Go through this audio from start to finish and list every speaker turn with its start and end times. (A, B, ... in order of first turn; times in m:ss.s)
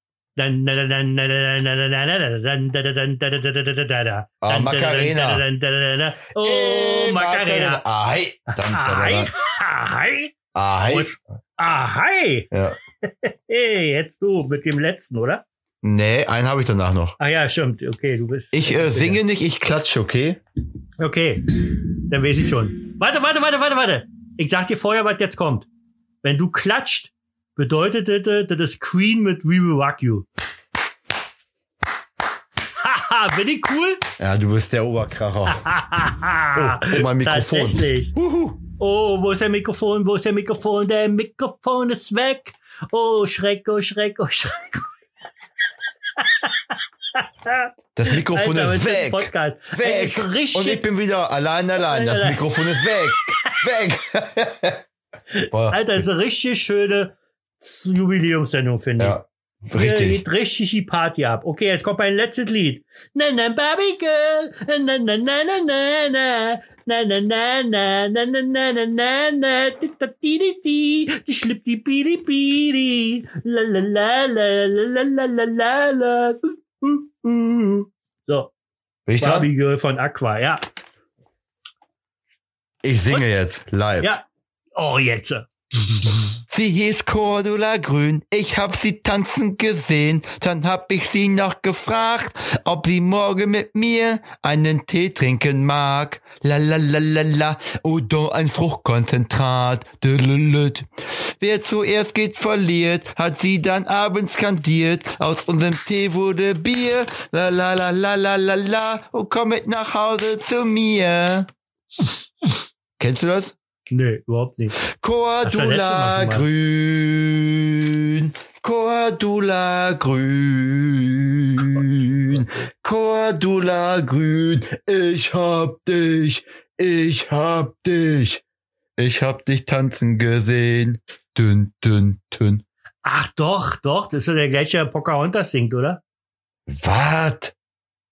0:00.4-0:07.8 A
0:04.4-0:05.4 B
0:06.4-0:09.3 B
0:08.5-0:10.3 A
0:10.5-0:11.2 B
0:10.9-0:12.5 A
0:12.5-0:12.8 B
0:13.0-0:15.4 A
0:15.8-0:17.2 B
0:17.2-0:19.2 A
0:18.5-0:20.4 B
0:21.0-0:21.5 A
0:22.1-0:25.7 A
0:26.2-0:30.3 A
0:32.8-0:34.0 A
0:34.2-0:35.6 B
0:35.5-0:38.1 A
0:36.5-0:38.6 B
0:38.8-0:44.9 A
0:46.2-0:46.6 A
0:47.1-0:50.8 A
0:47.9-0:54.8 B
0:51.8-0:52.6 A
0:55.3-0:59.2 A
0:55.5-0:56.0 B
0:59.0-1:00.2 B
0:59.7-1:18.5 A
1:19.1-1:19.5 B
1:19.2-1:20.6 A
1:22.8-1:24.2 B
1:24.0-1:26.4 A
1:26.5-1:51.5 B
1:53.0-1:53.5 B
1:53.9-1:54.8 A
1:54.8-2:08.4 B
1:55.4-1:56.5 A
2:09.0-2:12.6 B
2:13.0-2:16.0 A
2:16.7-2:17.5 B